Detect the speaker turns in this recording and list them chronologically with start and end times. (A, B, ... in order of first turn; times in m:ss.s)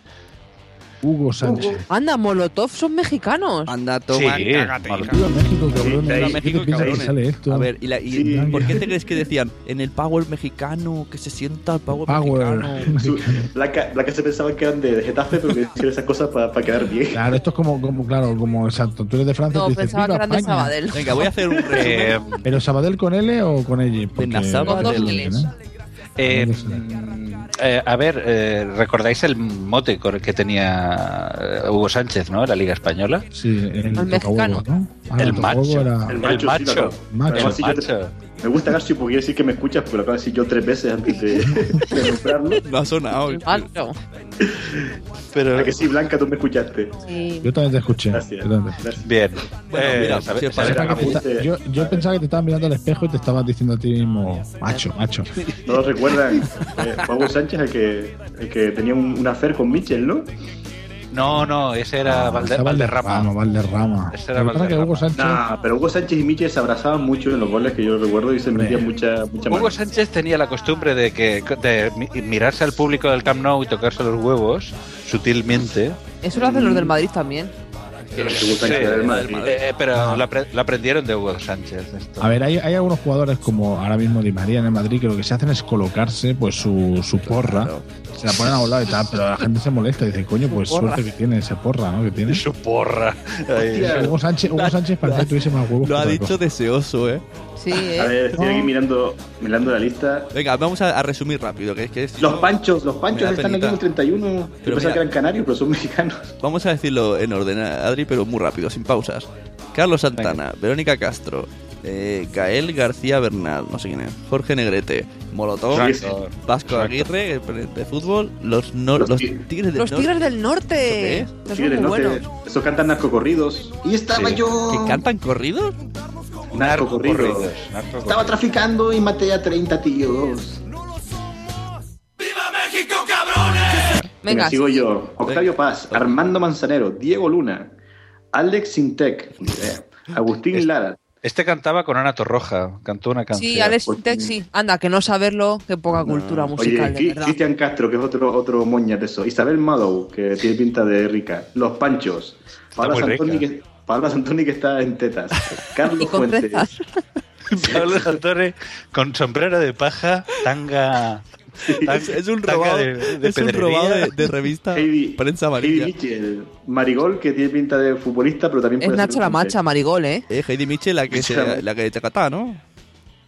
0:01.0-0:01.8 A
0:01.4-0:01.8 B
0:01.9-0:03.7 C
0:03.7-0:05.1 D
0:04.1-0:05.1 E
0:05.0-0:08.7 A
0:05.8-0:07.1 B
0:06.0-0:12.9 D
0:08.1-0:08.9 B
0:11.9-0:13.5 A
0:12.5-0:12.8 C
0:12.9-0:17.3 B
0:17.1-0:20.7 A
0:19.5-0:21.2 C
0:20.9-0:22.2 D
0:21.5-0:21.8 B
0:21.7-0:22.5 E
0:22.4-0:25.5 A
0:24.2-0:25.2 D
0:24.6-0:25.4 C
0:26.2-0:33.2 E
0:26.2-0:26.8 A
0:33.3-0:36.3 A
0:34.0-0:34.6 C
0:35.2-0:38.1 E
0:36.0-0:42.6 B
0:37.1-0:37.6 A
0:41.4-0:41.8 A
0:42.6-0:43.7 D
0:43.3-0:44.0 C
0:44.4-0:44.8 B
0:45.3-0:45.8 E
0:45.5-0:47.0 B
0:47.0-0:47.5 C
0:47.4-0:49.0 A
0:48.1-0:49.0 B
0:49.0-0:51.0 E
0:49.7-0:51.2 D
0:50.6-0:52.1 B
0:50.6-0:55.3 A
0:55.6-1:00.3 B
1:01.1-1:03.3 E
1:02.0-1:05.4 A
1:04.1-1:05.1 E
1:05.1-1:09.8 B
1:08.5-1:08.9 A
1:09.5-1:16.0 E
1:16.2-1:17.5 C
1:16.3-1:16.9 B
1:18.0-1:19.6 D
1:18.2-1:19.4 B
1:18.2-1:22.3 E
1:19.9-1:20.2 A
1:22.2-1:32.4 A
1:27.2-1:27.9 D
1:30.5-1:31.0 C
1:32.3-1:34.0 E
1:33.7-1:34.1 B
1:33.8-1:36.4 A
1:34.5-1:37.2 D
1:37.6-1:38.1 C
1:37.9-1:40.3 B
1:40.3-1:42.6 D
1:42.2-1:46.3 B
1:43.1-1:43.8 D
1:44.6-1:45.0 D
1:46.4-2:00.2 D
1:55.7-1:56.1 B
1:55.7-1:57.1 E
1:59.0-1:59.4 B
1:59.8-2:02.2 C
2:00.8-2:01.3 D
2:01.4-2:05.0 B
2:04.1-2:04.4 E
2:04.7-2:05.8 D
2:06.5-2:08.4 E
2:06.5-2:07.5 B
2:08.0-2:10.6 B
2:14.2-2:14.8 C
2:14.3-2:17.7 B
2:15.3-2:16.2 E
2:18.3-2:21.0 B
2:21.2-2:23.8 E
2:23.3-2:27.4 C
2:23.9-2:24.4 B
2:25.9-2:26.6 D
2:26.6-2:36.7 B
2:32.8-2:33.4 E
2:36.0-2:36.8 C
2:37.5-2:41.2 E
2:37.5-2:38.2 B
2:41.6-2:42.0 B
2:41.8-2:44.1 E
2:41.9-2:45.9 D
2:44.7-2:49.6 B
2:48.8-2:50.2 C
2:50.3-2:52.6 D
2:51.1-2:51.6 B